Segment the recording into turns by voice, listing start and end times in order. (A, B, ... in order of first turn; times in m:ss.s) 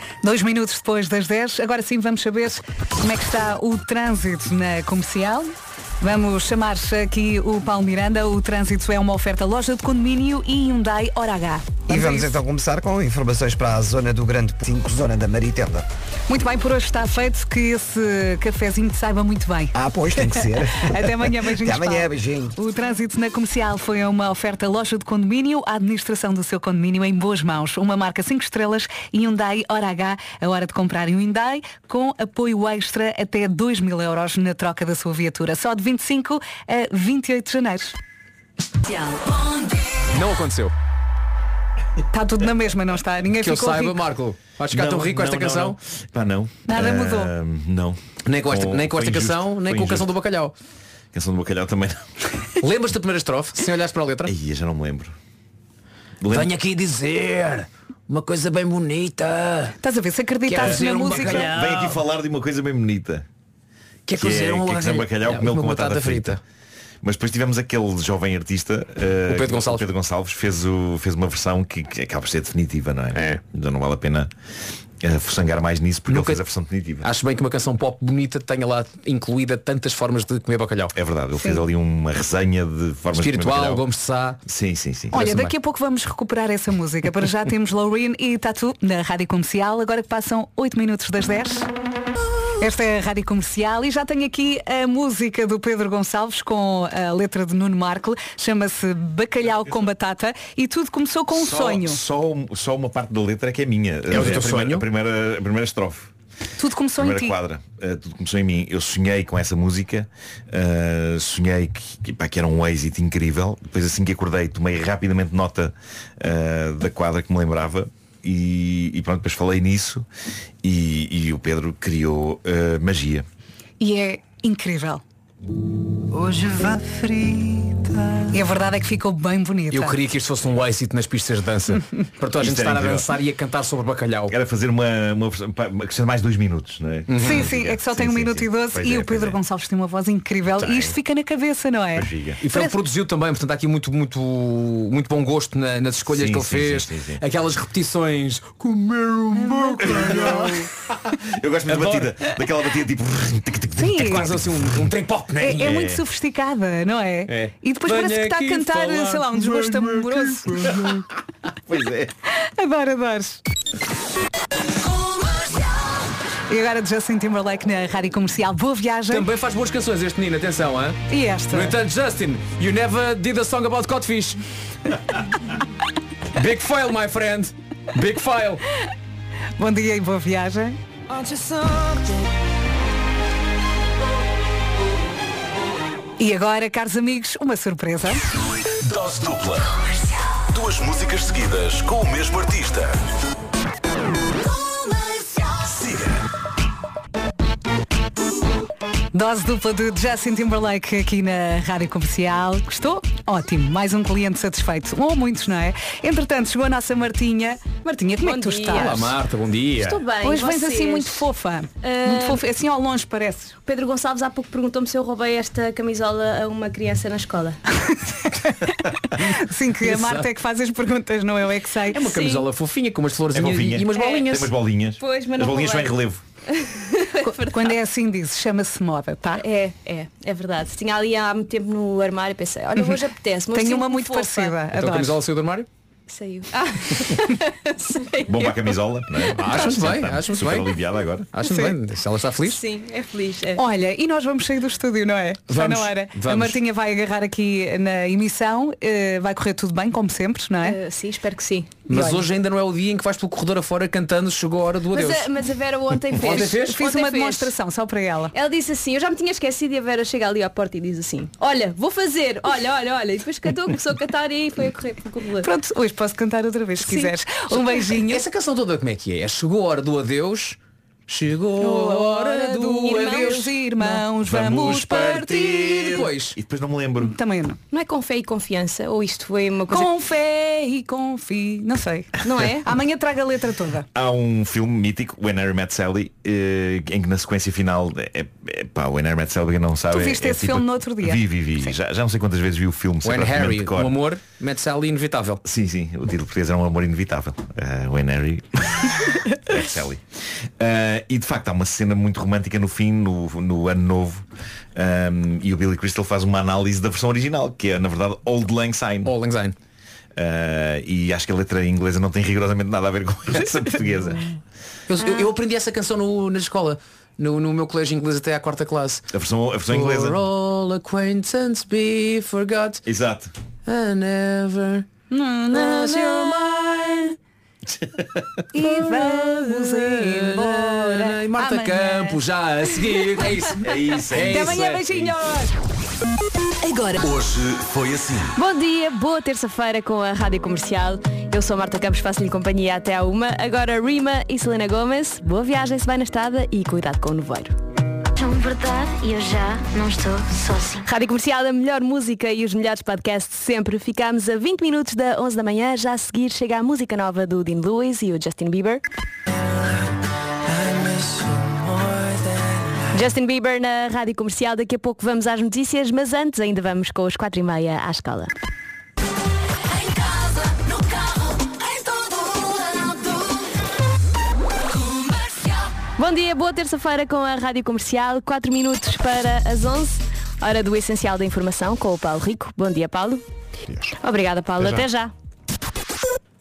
0:00.2-0:12.4 A
0:11.9-0:15.8 B
0:16.3-0:19.7 A
0:19.7-0:22.5 B
0:20.8-0:37.9 A
0:40.1-0:40.7 C
0:42.1-0:44.0 A
0:43.4-0:45.8 C
0:44.7-0:50.1 D
0:46.7-0:47.3 A
0:48.2-0:50.5 C
0:51.1-0:52.0 D
0:52.6-0:54.3 C
0:54.2-0:55.1 D
0:56.2-0:56.5 D
0:56.2-0:59.8 C
0:59.8-1:01.5 A
1:00.5-1:02.0 C
1:00.7-1:03.2 D
1:04.1-1:06.4 C
1:04.1-1:06.4 D
1:07.0-1:14.3 D
1:09.3-1:09.8 C
1:13.1-1:13.4 C
1:15.0-1:17.1 D
1:16.1-1:16.4 C
1:17.0-1:20.9 C
1:20.9-1:23.8 D
1:23.1-1:24.4 C
1:24.4-1:25.3 D
1:25.1-1:25.5 C
1:25.1-1:31.7 A
1:32.6-1:42.0 A
1:41.3-1:46.1 D
1:44.1-1:44.8 C
1:46.6-1:47.4 A
1:47.0-2:00.1 D
2:00.6-2:03.2 D
2:03.8-2:05.0 A
2:06.2-2:07.8 C
2:08.3-2:10.0 A
2:09.7-2:14.3 C
2:12.3-2:13.1 D
2:14.3-2:19.4 D
2:17.1-2:17.5 C
2:17.2-2:22.8 A
2:22.0-2:22.4 D
2:22.4-2:30.7 C
2:26.1-2:27.2 D
2:29.3-2:30.7 A
2:29.8-2:30.6 D
2:31.2-2:34.2 D
2:31.6-2:32.4 C
2:33.8-2:34.3 A
2:34.0-2:35.8 C
2:35.4-2:40.8 A
2:35.6-2:36.0 D
2:37.3-2:41.0 C
2:41.7-2:42.1 D
2:42.3-2:43.4 A
2:46.5-2:49.3 A
2:49.1-2:55.0 C
2:51.1-2:51.8 A
2:56.3-2:58.6 C
2:59.6-3:00.8 A
3:06.2-3:08.2 A
3:08.8-3:09.8 E
3:10.5-3:13.0 E
3:15.6-3:16.2 E
3:19.1-3:29.1 A
3:28.2-3:29.1 F
3:28.7-3:30.0 C
3:29.8-3:31.3 F
3:30.2-3:33.6 A
3:31.8-3:32.4 F
3:33.6-3:37.6 F
3:38.3-3:42.0 A
3:39.2-3:40.3 C
3:41.9-3:44.5 C
3:41.9-3:42.5 F
3:43.3-3:46.2 D
3:43.9-3:47.8 F
3:47.2-3:49.4 A
3:49.4-3:54.6 F
3:53.5-3:55.2 A
3:54.7-3:55.7 C
3:56.1-3:58.8 F
3:58.3-4:01.3 D
3:59.3-4:00.7 C
4:01.3-4:02.6 C
4:02.4-4:03.6 F
4:03.6-4:10.8 A
4:05.5-4:06.6 C
4:10.6-4:11.8 F
4:11.9-4:15.3 C
4:11.9-4:12.2 A
4:14.9-4:17.6 F
4:16.1-4:16.8 C
4:16.4-4:18.3 A
4:18.3-4:25.5 F
4:25.4-4:28.2 A
4:26.8-4:27.9 F
4:28.1-4:33.4 C
4:31.6-4:36.0 A
4:31.6-4:34.0 F
4:34.2-4:37.1 D
4:35.7-4:36.4 C
4:37.0-4:37.6 A
4:37.7-4:39.9 F
4:39.7-4:43.9 A
4:42.2-4:42.7 F
4:43.9-4:53.9 D
4:49.9-4:51.7 A
4:53.0-4:55.4 C
4:55.4-5:00.0 D
5:00.6-5:09.1 D
5:09.0-5:09.6 C
5:10.2-5:14.3 D
5:14.9-5:19.1 C
5:15.0-5:15.3 F
5:19.1-5:20.2 D
5:19.7-5:22.8 C
5:22.8-5:23.3 D
5:23.6-5:24.9 C
5:25.1-5:27.0 A
5:25.5-5:27.1 C
5:28.5-5:32.2 A
5:28.6-5:35.1 C
5:32.7-5:33.3 A
5:33.6-5:35.1 D
5:34.3-5:35.5 A
5:36.6-5:37.0 A
5:37.0-5:38.4 E
5:38.4-5:47.5 F
5:48.2-5:50.8 G
5:50.8-5:58.8 F
6:02.9-6:08.3 F
6:10.4-6:13.2 F
6:14.9-6:23.2 F
6:24.0-6:25.1 F